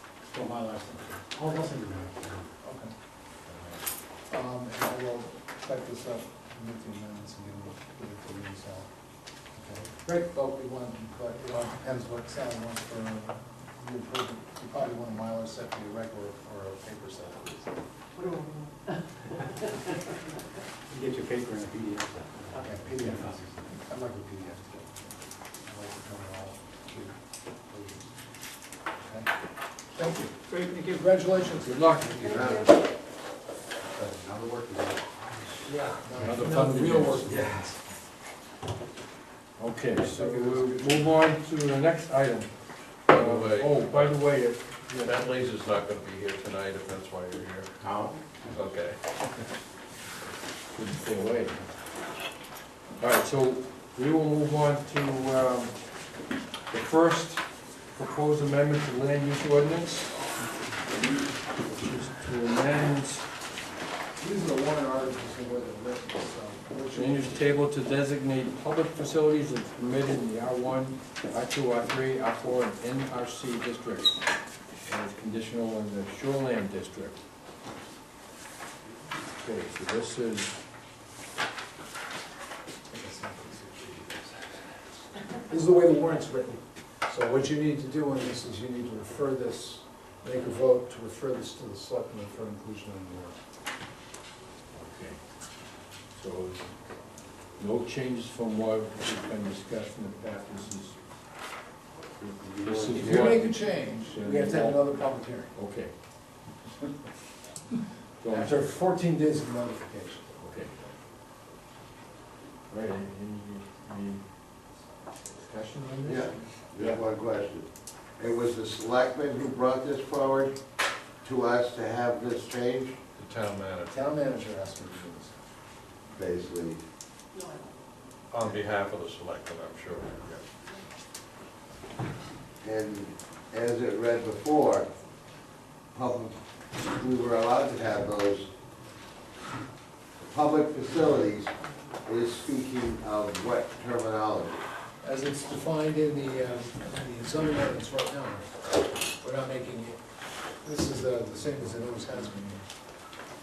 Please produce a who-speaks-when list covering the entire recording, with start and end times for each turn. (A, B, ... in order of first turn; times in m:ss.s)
0:00.1-0:02.5 A
0:02.6-0:02.9 B
0:04.3-0:17.8 B
0:20.9-0:23.5 A
0:22.5-0:28.1 B
0:29.0-0:29.3 B
0:29.9-0:32.7 B
0:31.7-0:32.2 C
0:32.2-0:32.8 D
0:33.9-0:35.7 D
0:35.7-0:37.8 B
0:36.2-0:37.3 C
0:37.3-0:37.8 D
0:39.6-0:45.1 C
0:40.1-0:41.1 B
0:43.0-0:49.4 E
0:47.8-0:48.2 A
0:50.7-0:52.0 C
0:53.0-1:00.4 C
1:01.5-1:03.3 C
1:04.2-1:07.5 B
1:06.9-1:17.2 C
1:19.3-1:20.6 C
1:22.9-1:33.4 B
1:34.8-1:35.3 C
1:36.1-1:37.0 C
1:37.6-1:41.0 C
1:42.2-1:46.0 C
1:42.4-1:43.4 D
1:43.0-1:45.5 B
1:48.2-1:48.6 C
1:48.3-1:50.4 B
1:50.4-1:50.8 C
1:52.7-1:54.3 C
1:55.3-1:57.0 C
1:56.0-2:00.6 D
2:01.2-2:03.0 D
2:03.2-2:04.0 E
2:03.9-2:05.5 B
2:06.1-2:06.8 D
2:08.3-2:10.4 E
2:12.6-2:14.9 D
2:15.9-2:18.5 D
2:20.2-2:24.6 D
2:25.0-2:33.1 B